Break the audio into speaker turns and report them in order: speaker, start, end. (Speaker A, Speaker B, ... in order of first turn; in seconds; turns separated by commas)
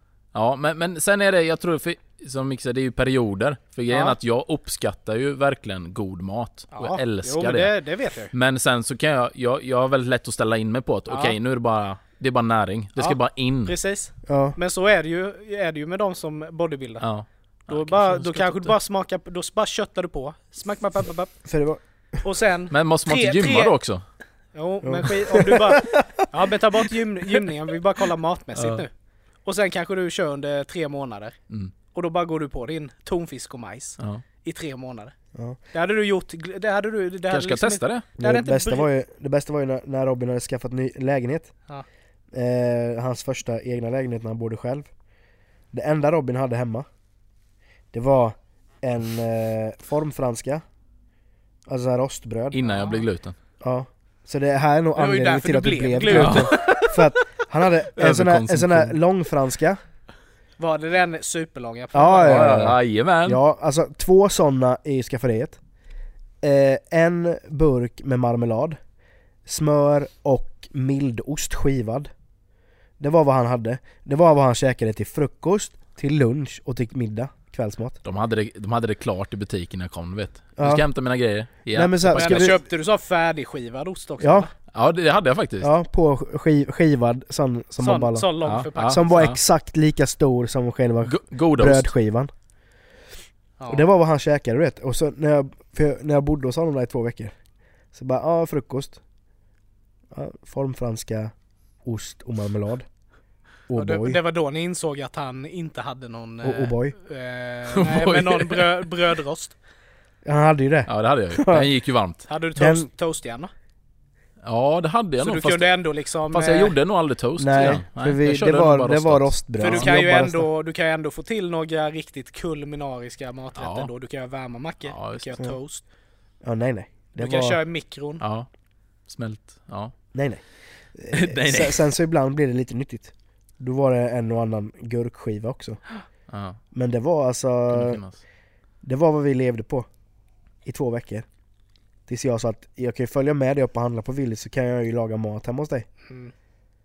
Speaker A: 0.3-13.8, Speaker B: 3.9-4.2, Speaker B: 6.7-8.3, Speaker B: 11.1-11.4, Speaker B: 13.0-38.9, Speaker C: 14.3-14.6, Speaker A: 17.0-18.7, Speaker C: 21.4-21.8, Speaker A: 22.7-24.1, Speaker C: 24.8-26.2, Speaker A: 28.6-28.9, Speaker A: 34.0-34.2, Speaker A: 37.3-38.1, Speaker C: 38.2-41.7, Speaker C: 42.3-45.0, Speaker C: 45.7-46.9, Speaker C: 47.9-50.6, Speaker C: 51.7-52.6, Speaker A: 52.5-53.4, Speaker B: 52.6-53.0, Speaker C: 53.6-59.8, Speaker B: 55.0-57.1, Speaker A: 56.1-56.5, Speaker A: 58.0-59.0, Speaker B: 60.6-62.6, Speaker C: 61.9-65.6, Speaker A: 62.2-63.4, Speaker C: 66.4-68.8, Speaker C: 69.5-72.1, Speaker C: 73.0-78.0, Speaker A: 78.0-82.5, Speaker C: 80.6-80.9, Speaker C: 81.7-82.6, Speaker B: 82.1-84.5, Speaker C: 84.2-84.5, Speaker A: 84.7-85.7, Speaker C: 85.6-92.3, Speaker B: 87.8-89.3, Speaker A: 88.4-89.4, Speaker A: 91.0-92.0, Speaker B: 93.6-93.8, Speaker C: 93.7-99.0, Speaker C: 100.1-102.9, Speaker C: 103.7-104.2, Speaker B: 103.8-109.6, Speaker C: 106.4-107.0, Speaker A: 107.8-108.8, Speaker C: 110.2-111.7, Speaker A: 110.9-112.3, Speaker B: 112.3-113.5, Speaker C: 112.6-112.9, Speaker A: 114.4-119.9, Speaker B: 115.2-116.8, Speaker C: 117.4-120.5, Speaker B: 119.6-125.8, Speaker A: 123.6-123.9, Speaker A: 124.8-125.4, Speaker C: 126.4-127.6, Speaker B: 127.2-128.2, Speaker A: 128.2-131.9, Speaker C: 130.1-135.9, Speaker A: 136.3-136.6, Speaker C: 136.7-138.3, Speaker A: 137.7-138.2, Speaker C: 138.8-139.9, Speaker C: 140.6-141.3, Speaker C: 142.1-145.9, Speaker B: 146.1-146.3